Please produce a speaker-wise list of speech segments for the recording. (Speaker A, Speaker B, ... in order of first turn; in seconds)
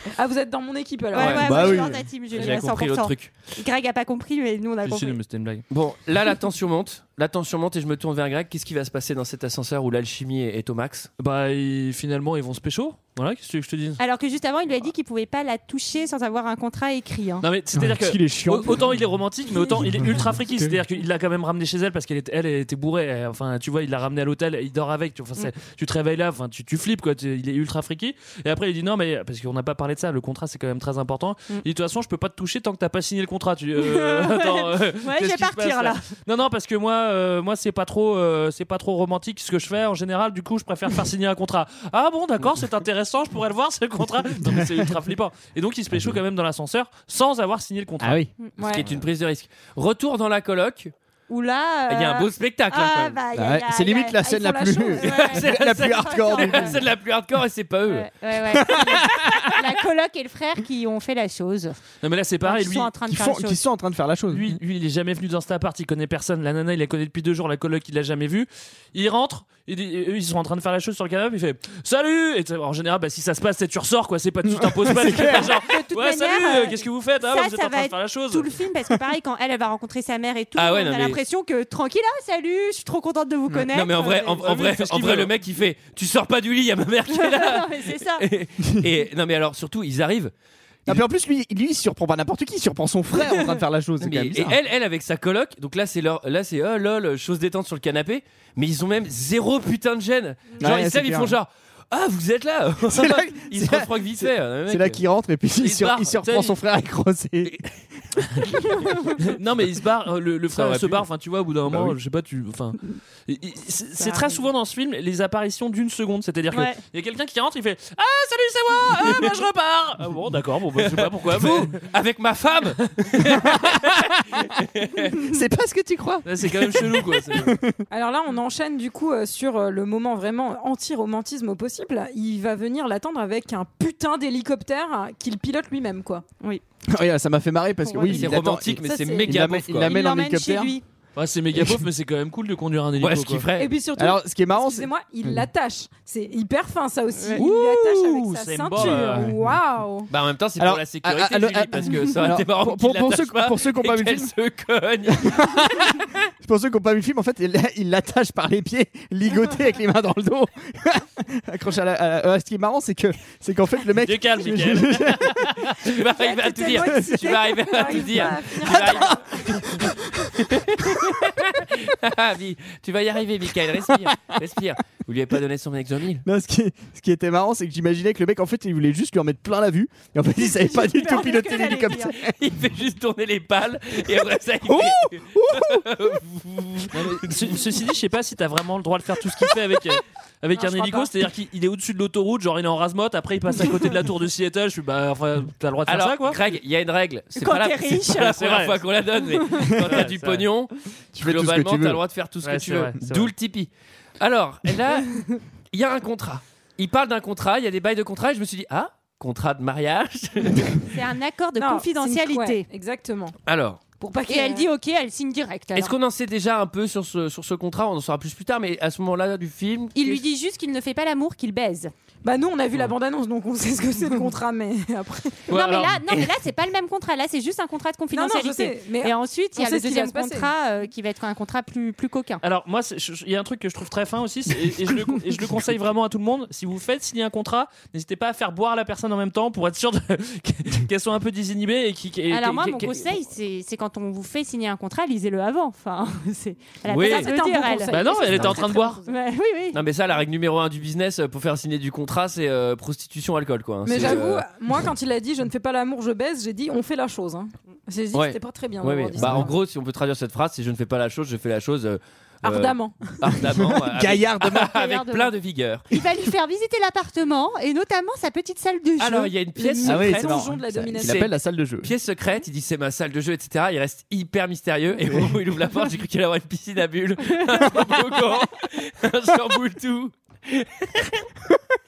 Speaker A: 0.2-1.8, 2.3-2.6, 48.6-48.8, 54.3-55.0, 127.9-136.2, 138.8-139.4, 143.6-150.1, 166.1-169.3, 211.6-213.3, 214.0-214.7, 222.2-225.5, 228.1-230.5, 246.9-249.1, 253.8-259.5, 262.4-263.1, 269.6-271.3
Speaker B: 1.1-5.2, 14.0-17.4, 33.8-36.1, 51.3-56.9, 57.9-61.8, 62.4-63.6, 75.2-84.5, 87.1-88.2, 114.0-114.4, 116.5-116.8, 137.9-138.3, 139.8-140.8, 180.6-182.2, 190.6-191.1, 197.4-198.5, 199.5-199.9, 210.9-212.6, 214.3-215.9, 219.9-221.9, 225.5-232.4, 242.3-249.8, 264.7-265.4, 265.9-269.3, 277.4-277.8
Speaker C: 1.1-3.5, 5.7-11.1, 48.6-50.9, 51.9-53.2, 55.0-58.1, 59.0-59.5, 80.5-81.2, 83.7-90.3, 94.0-105.0, 105.6-106.1, 110.5-111.0, 120.8-125.1, 138.1-140.0, 143.0-143.7, 150.1-156.0, 165.8-169.8, 170.4-176.2, 182.3-187.6, 195.8-210.9, 213.5-213.8, 215.7-220.2, 246.9-247.3, 249.7-254.4, 258.1-265.9, 269.0-270.5, 271.0-271.3, 271.8-281.2
Speaker D: 1.4-2.0, 17.8-18.9, 19.8-20.7, 44.4-44.9, 48.0-48.3, 53.3-56.8, 58.5-59.1, 63.1-64.6, 74.4-75.5, 90.9-94.5, 100.6-101.3, 102.9-107.6, 123.5-124.3, 125.2-127.8, 136.9-140.7, 141.5-141.8, 144.0-145.4, 147.4-147.8, 148.8-149.5, 150.6-154.3, 155.1-165.5, 166.9-167.2, 168.1-169.8, 174.0-174.3, 176.2-182.3, 184.7-185.9, 201.1-202.0, 259.2-259.5, 263.2-264.8, 269.8-271.9
Speaker E: 4.8-5.6, 11.2-14.0, 17.4-48.2, 62.0-62.9, 64.3-78.6, 84.4-85.3, 106.2-106.5, 109.2-121.8, 126.2-127.5, 141.2-143.4, 147.8-149.3, 164.0-165.8, 186.9-196.4, 198.2-198.8, 199.8-200.5, 202.4-203.3, 225.5-226.0, 232.4-243.1, 247.9-249.0